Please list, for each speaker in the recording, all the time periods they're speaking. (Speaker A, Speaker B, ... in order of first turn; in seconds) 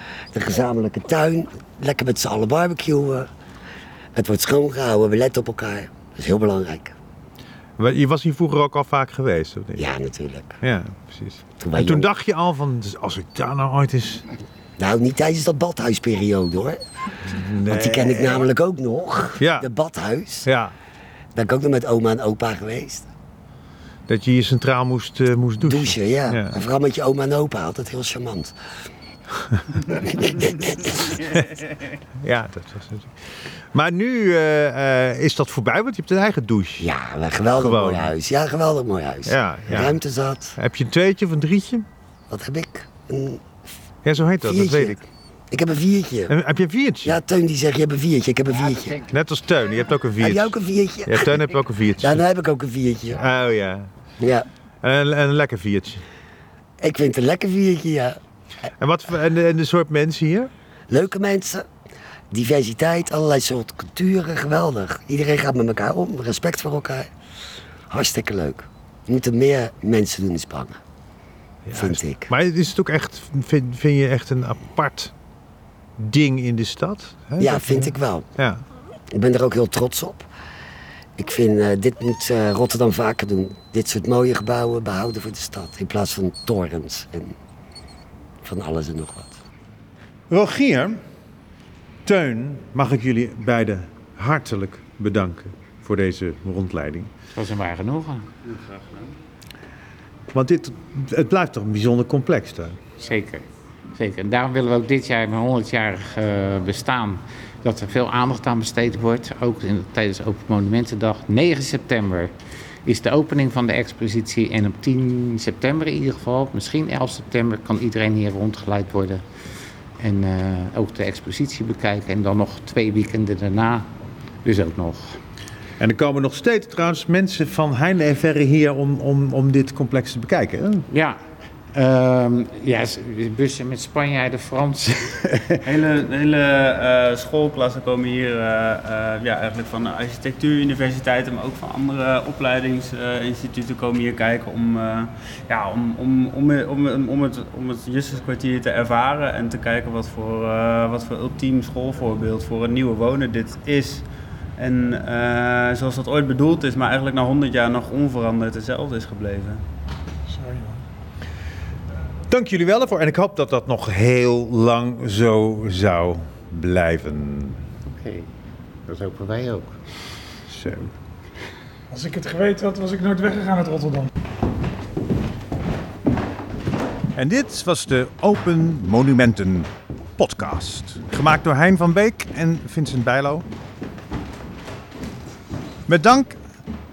Speaker A: 0.3-3.3, 4.2-6.9, 9.8-10.6, 11.6-12.1, 14.8-16.8, 17.7-20.5, 21.3-23.1, 25.6-28.5, 29.9-31.0, 36.8-40.5, 42.3-43.5, 44.4-46.3, 47.0-49.0, 50.2-51.4, 52.0-53.2, 54.2-54.5, 56.8-58.2, 60.9-61.7, 62.3-67.1, 67.9-70.8, 71.7-72.3, 77.4-78.2, 79.1-80.3, 81.2-87.3, 88.4-89.3
Speaker B: 7.8-9.9, 10.6-14.2, 17.2-18.4, 19.4-19.7, 20.4-20.7, 24.1-26.5, 32.2-36.9, 37.5-38.1, 39.2-40.0, 40.6-41.9, 44.0-45.0, 46.3-47.2, 49.1-50.5, 51.0-52.2, 53.2-53.9, 54.8-56.0, 58.8-60.5, 71.6-75.1, 76.0-78.6, 90.3-91.0, 92.0-97.1, 100.3-102.8, 125.8-130.8, 162.3-167.6, 170.5-170.9, 177.1-183.4, 185.9-186.4
Speaker C: 48.6-49.0, 97.3-98.3, 103.0-112.3, 112.8-119.2, 120.0-123.9, 124.4-125.2, 130.9-131.2, 131.7-135.6, 168.0-168.3, 168.9-169.8
Speaker D: 98.5-99.1, 135.6-154.1, 154.6-159.6
Speaker E: 160.3-160.8, 171.9-174.1